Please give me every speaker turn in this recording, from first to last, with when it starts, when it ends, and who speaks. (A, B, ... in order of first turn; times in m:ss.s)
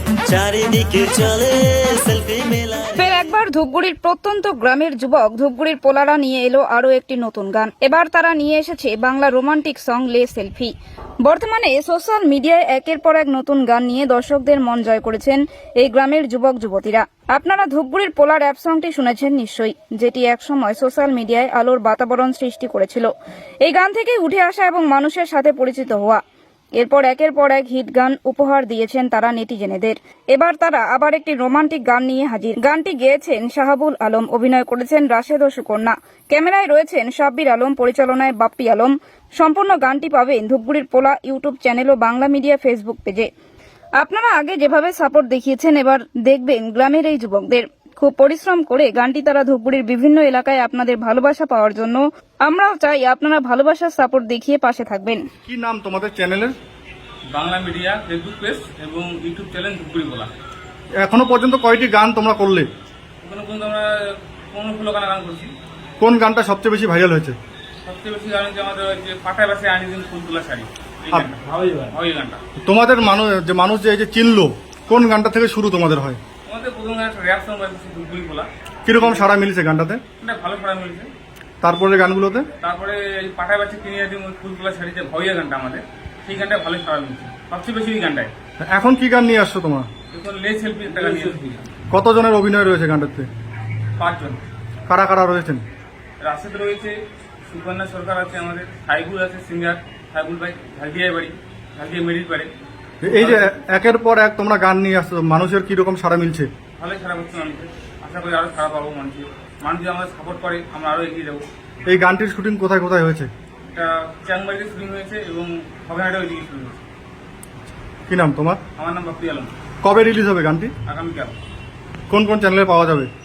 0:00.3-0:03.2 A
0:03.0-0:10.7 B
0:11.2-0:23.1 B
0:23.6-0:26.2 B
0:26.8-0:43.3 B
0:44.0-0:55.2 B
0:55.4-0:56.6 C
0:57.3-1:00.3 D
1:01.0-1:02.7 C
1:03.2-1:05.5 D
1:06.0-1:07.4 C
1:07.9-1:12.4 D
1:12.6-1:16.2 C
1:16.5-1:19.3 D
1:18.9-1:20.0 C
1:20.2-1:21.1 D
1:21.6-1:22.5 C
1:22.6-1:28.3 D
1:28.6-1:29.9 C
1:30.1-1:31.7 D
1:31.9-1:33.3 C
1:34.0-1:34.4 D
1:34.9-1:35.6 C
1:36.2-1:42.5 D
1:43.0-1:46.5 C
1:43.1-1:43.5 D
1:46.8-1:51.4 D
1:51.9-1:53.3 C
1:53.7-1:56.8 D
1:58.1-1:58.6 C
1:58.8-1:59.5 D
1:59.8-2:00.7 C
2:00.9-2:01.4 D
2:02.1-2:03.1 C